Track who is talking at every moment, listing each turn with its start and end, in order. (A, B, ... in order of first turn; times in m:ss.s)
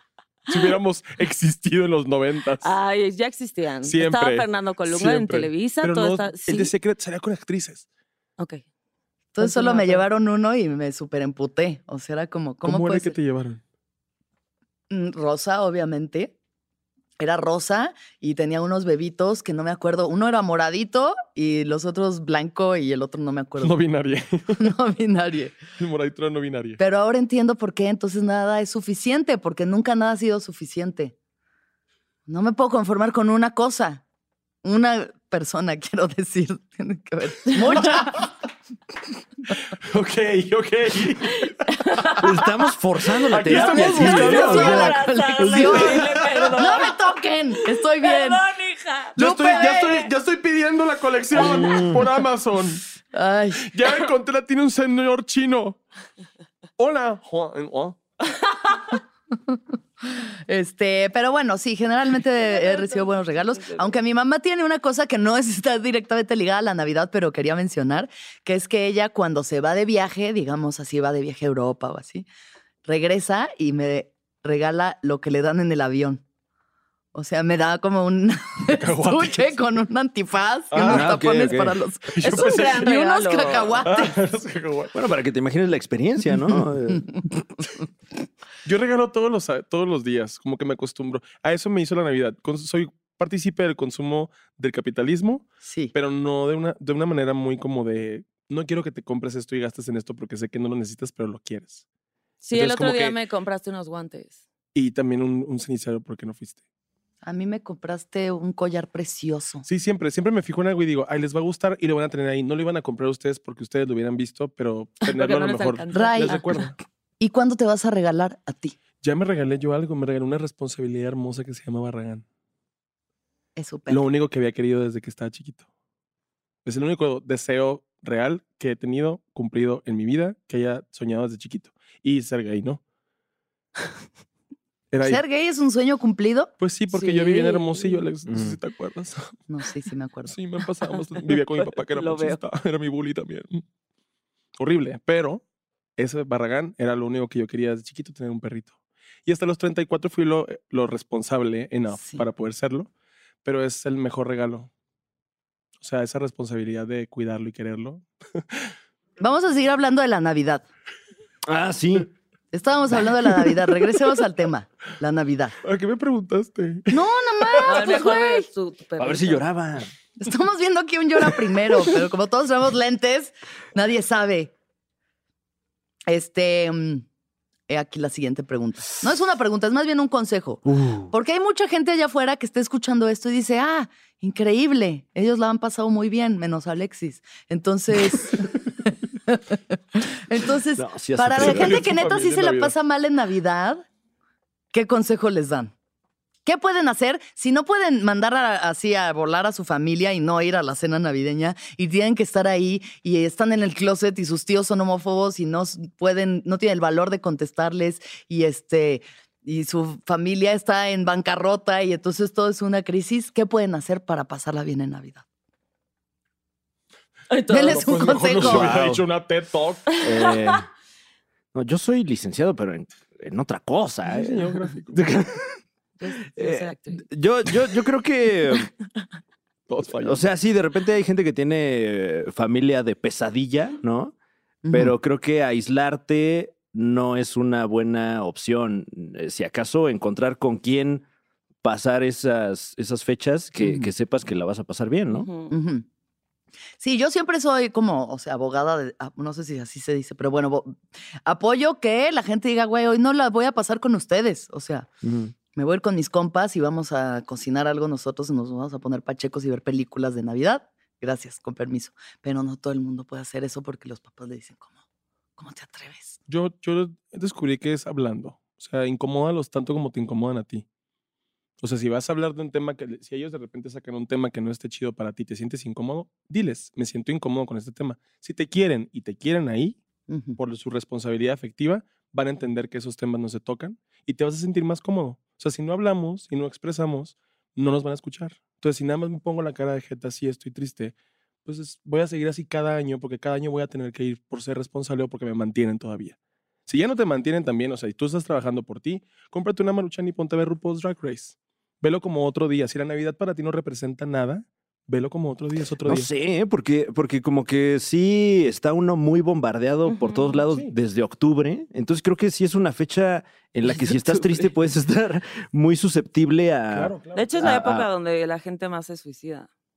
0:00.5-0:02.7 A
0:02.6-0:06.7 B
0:03.8-0:07.8 A
0:08.4-0:08.6 B
0:09.3-0:13.2 C
0:09.4-0:10.0 B
0:12.6-0:13.6 A
0:14.9-0:16.3 C
0:17.2-0:23.8 C
0:23.6-0:24.7 A
0:24.6-0:25.6 C
0:25.8-0:26.8 A
0:26.8-0:31.1 C
0:32.3-0:34.0 C
0:34.6-0:38.3 C
0:39.8-0:41.5 A
0:41.4-0:42.4 B
0:42.2-0:45.8 D
0:43.3-0:45.0 A
0:43.5-0:47.0 B
0:43.7-0:48.4 C
0:45.5-0:46.8 A
0:47.6-0:49.7 B
0:49.2-0:50.1 C
0:49.2-0:52.8 A
0:51.4-0:52.0 D
0:51.4-0:51.9 C
0:53.1-0:53.8 C
0:53.6-0:55.8 A
0:56.8-0:58.0 A
0:58.3-0:59.0 B
0:59.5-1:12.3 C
1:02.4-1:04.0 B
1:12.8-1:16.2 C
1:17.1-1:24.1 C
1:18.7-1:19.6 A
1:20.7-1:21.1 A
1:20.8-1:21.8 D
1:22.1-1:22.8 A
1:22.2-1:23.8 B
1:23.8-1:24.9 A
1:24.9-1:27.5 D
1:28.6-1:41.8 A
1:35.6-1:35.9 C
1:42.4-1:44.4 B
1:42.5-1:43.2 A
1:44.7-1:46.6 A
1:47.2-1:49.6 C
1:49.6-1:56.7 A
1:55.0-1:56.7 B
1:55.9-1:56.4 C
1:57.2-1:58.8 C
1:59.0-2:02.2 A
2:03.6-2:04.0 C
2:03.9-2:05.6 A
2:06.6-2:12.8 A
2:14.9-2:15.2 A
2:15.0-2:16.5 C
2:16.6-2:19.3 A
2:16.9-2:18.0 B
2:18.3-2:18.6 D
2:19.5-2:20.3 C
2:20.3-2:23.6 A
2:20.9-2:22.4 B
2:24.6-2:25.4 A
2:26.0-2:28.7 A
2:29.2-2:32.9 A
2:31.9-2:32.2 C
2:33.4-2:34.7 A
2:35.8-2:38.7 A
2:39.2-2:40.6 C
2:41.5-2:42.1 D
2:42.5-2:45.5 C
2:45.6-2:47.8 A
2:46.9-2:48.4 C
2:47.6-2:49.4 B
2:49.0-2:49.9 D
2:50.2-2:54.5 C
2:56.1-2:57.0 C
2:57.7-3:13.8 C
3:00.7-3:01.1 D
3:10.8-3:12.0 D
3:11.3-3:12.7 A
3:14.7-3:15.7 C
3:16.4-3:35.2 C
3:37.3-3:38.0 B
3:37.5-3:38.7 C
3:37.6-3:39.9 A
3:38.4-3:39.0 D
3:40.0-3:40.7 D
3:40.2-3:40.6 B
3:41.5-3:45.6 D
3:44.0-3:45.1 A
3:46.0-3:47.0 B
3:46.3-3:48.7 D
3:49.7-3:50.2 A
3:50.0-3:54.1 D
3:54.6-3:54.9 C
3:54.7-4:01.0 D
4:01.6-4:05.3 D
4:03.6-4:03.9 C
4:05.1-4:05.5 B
4:05.5-4:05.8 C
4:06.8-4:14.9 C
4:15.0-4:15.3 D
4:15.5-4:24.7 C
4:25.4-4:26.2 C
4:26.3-4:30.6 A
4:31.6-4:39.8 A
4:40.1-4:40.4 C
4:40.4-4:50.9 A
4:51.4-5:06.1 A
5:05.8-5:17.9 D
5:09.8-5:10.4 B
5:16.7-5:17.5 A
5:17.1-5:19.5 B